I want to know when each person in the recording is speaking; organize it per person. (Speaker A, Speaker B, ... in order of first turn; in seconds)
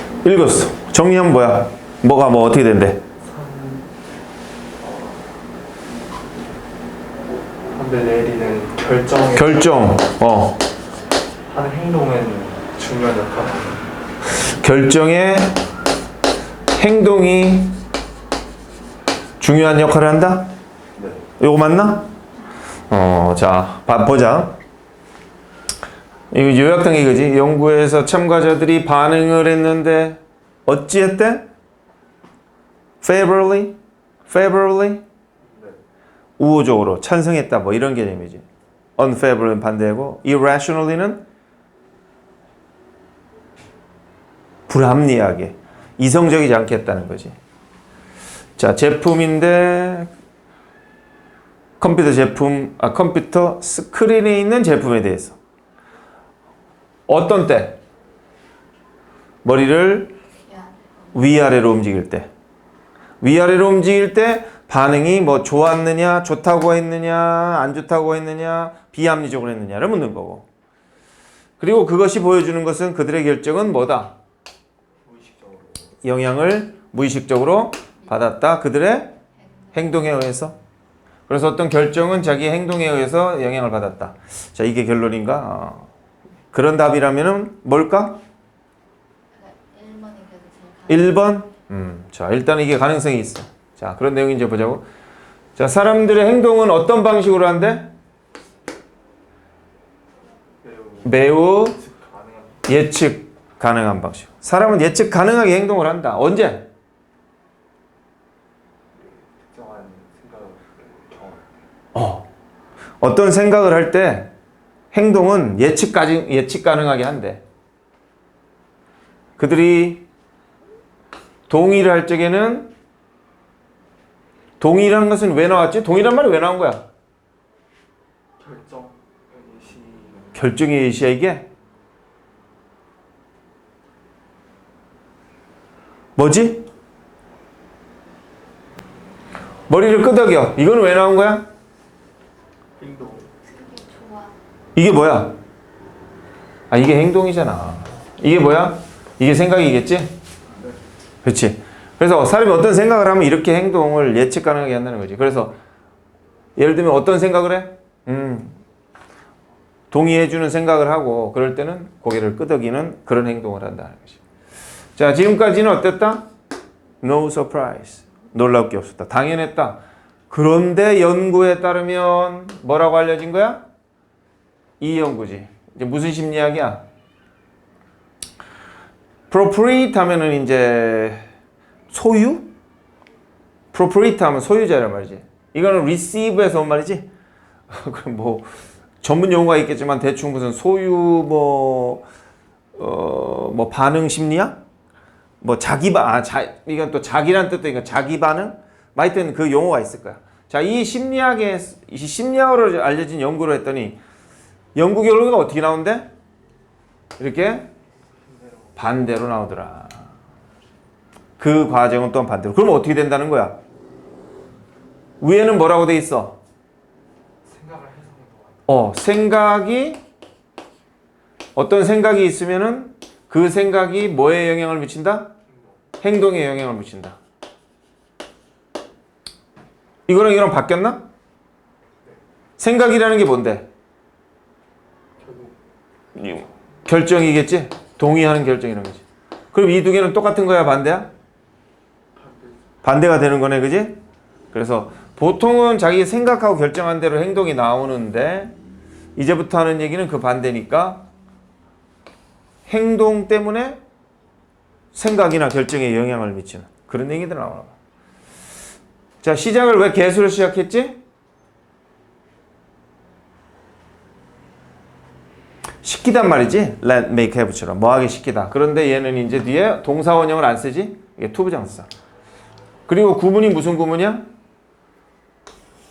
Speaker A: 0.2-3.0, 9.3-10.6, 14.3-15.6, 16.8-17.8, 19.4-20.5, 21.4-22.1, 22.9-24.6, 26.3-31.5, 33.0-33.8, 34.3-35.0, 36.4-38.5, 39.0-41.2, 44.7-47.4, 48.6-50.1, 51.8-55.4, 57.1-57.8, 59.4-60.1, 61.1-62.3, 63.2-70.5, 71.6-74.1, 76.0-79.2, 79.7-80.6, 81.3-85.9, 86.5-88.2, 90.9-94.8, 95.6-97.9, 101.0-101.8, 102.7-106.7, 112.0-112.3, 113.0-114.3, 114.9-117.4, 119.4-120.0, 121.5-122.7, 124.6-126.8, 130.3-131.5, 136.2-136.7, 139.7-141.5, 144.8-145.4, 146.7-150.1, 151.2-155.6, 156.6-158.6, 159.9-164.2, 165.0-166.2, 167.0-169.8, 170.3-173.6, 174.8-176.8, 179.3-181.3, 181.9-182.5, 183.7-187.1, 187.7-188.5, 189.0-192.1, 192.8-194.6, 195.4-204.0, 204.8-206.1, 207.2-207.7, 208.8-210.1, 211.4-213.6, 215.2-216.4, 218.7-220.0, 221.6-225.3, 226.0-227.2, 230.1-231.1, 232.6-233.7, 236.2-241.1, 242.8-244.0, 244.5-248.5, 249.2-251.1, 252.7-253.8, 254.9-257.7, 259.2-261.0, 265.8-271.9, 272.9-274.3
Speaker B: 3.2-3.9, 7.7-9.7, 11.5-13.8, 35.5-35.8, 75.0-75.9, 100.6-102.6, 109.1-111.5, 128.4-130.4, 142.8-143.3, 208.3-208.8, 217.4-218.7, 235.2-235.6, 242.2-242.6
Speaker C: 60.5-61.0, 79.5-79.9, 89.3-91.2, 143.4-144.3